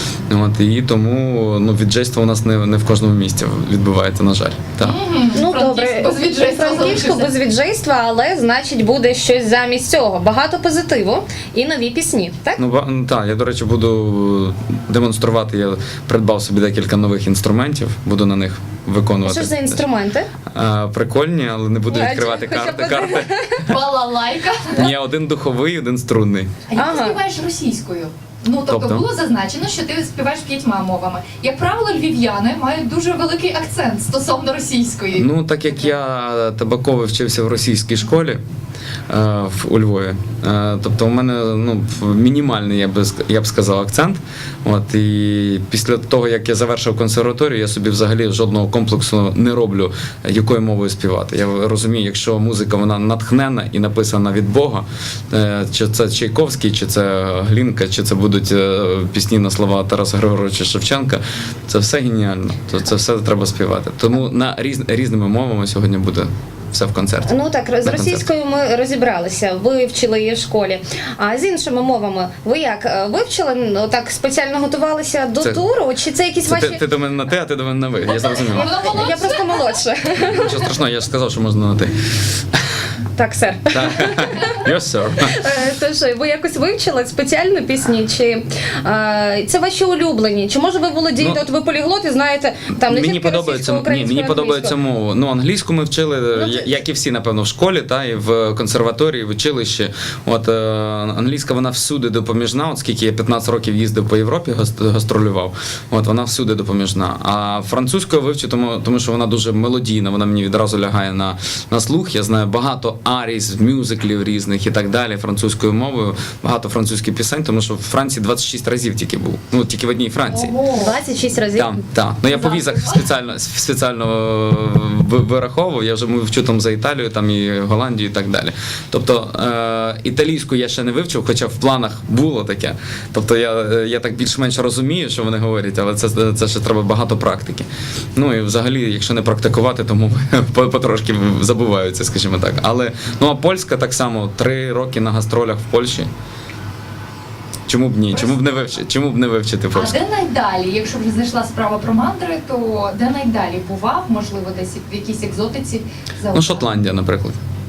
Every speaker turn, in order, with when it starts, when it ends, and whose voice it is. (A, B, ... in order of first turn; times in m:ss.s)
0:00.3-0:05.0 A
0:04.8-0:07.3 B
0:05.3-0:12.6 C
0:12.6-0:19.8 A
0:19.2-0:20.3 C
0:20.5-0:23.8 A
0:21.9-0:23.7 C
0:23.7-0:24.9 B
0:24.7-0:26.5 A
0:26.7-0:35.3 B
0:26.8-0:27.2 C
0:28.7-0:29.0 A
0:35.1-0:38.4 A
0:39.1-1:08.2 A
1:07.3-1:16.8 C
1:16.5-1:18.8 A
1:18.5-1:19.8 B
1:18.5-1:20.6 C
1:20.2-1:22.0 A
1:23.2-1:24.6 C
1:23.7-1:25.4 A
1:25.2-1:34.8 C
1:32.8-2:00.6 A
1:36.4-1:36.7 C
2:00.3-2:01.0 B
2:00.8-2:01.8 C
2:01.6-2:26.1 A
2:02.3-2:03.0 B
2:27.7-2:30.0 A
2:28.1-2:28.8 B
2:29.7-2:36.7 B
2:36.3-2:37.4 A